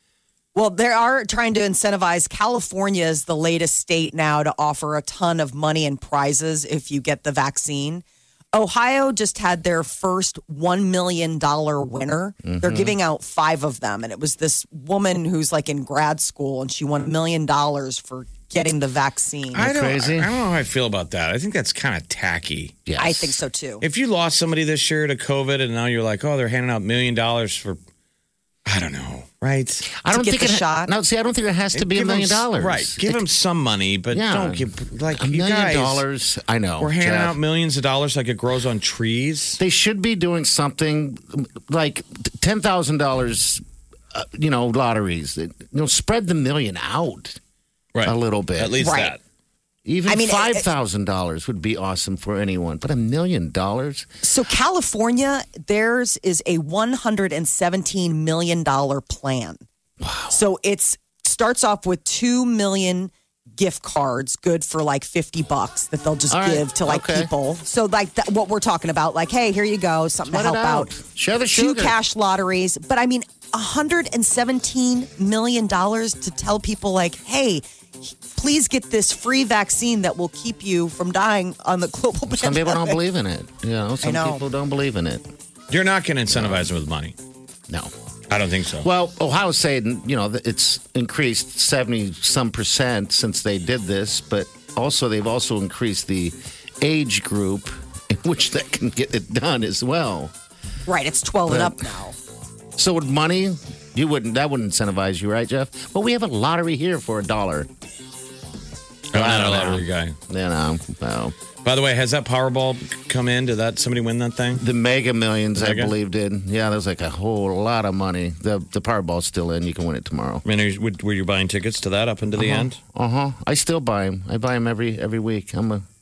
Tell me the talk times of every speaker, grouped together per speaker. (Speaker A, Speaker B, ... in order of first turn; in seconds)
Speaker A: 0.6-19.6, 23.0-23.8, 30.1-30.9, 48.8-49.2, 50.1-50.7, 54.2-59.6, 60.3-70.9, 71.5-77.6, 78.2-83.0, 84.0-84.4, 100.9-102.2
Speaker B: 12.4-13.0, 19.6-20.4, 22.9-23.4, 29.9-33.2, 34.1-37.4, 39.6-47.4, 48.0-48.8, 49.9-54.1, 60.0-60.4, 66.3-67.3, 70.3-72.0, 82.3-85.3, 86.3-86.7, 88.8-100.3, 101.5-101.8, 102.8-107.7, 109.1-111.3, 114.6-120.4, 122.4-125.8
Speaker C: 19.6-22.8, 23.8-27.8, 28.7-29.9, 31.7-36.0, 36.8-39.6, 48.0-49.2, 85.7-87.2, 88.3-88.9, 109.1-110.2, 111.6-114.6, 115.6-115.9, 120.5-122.8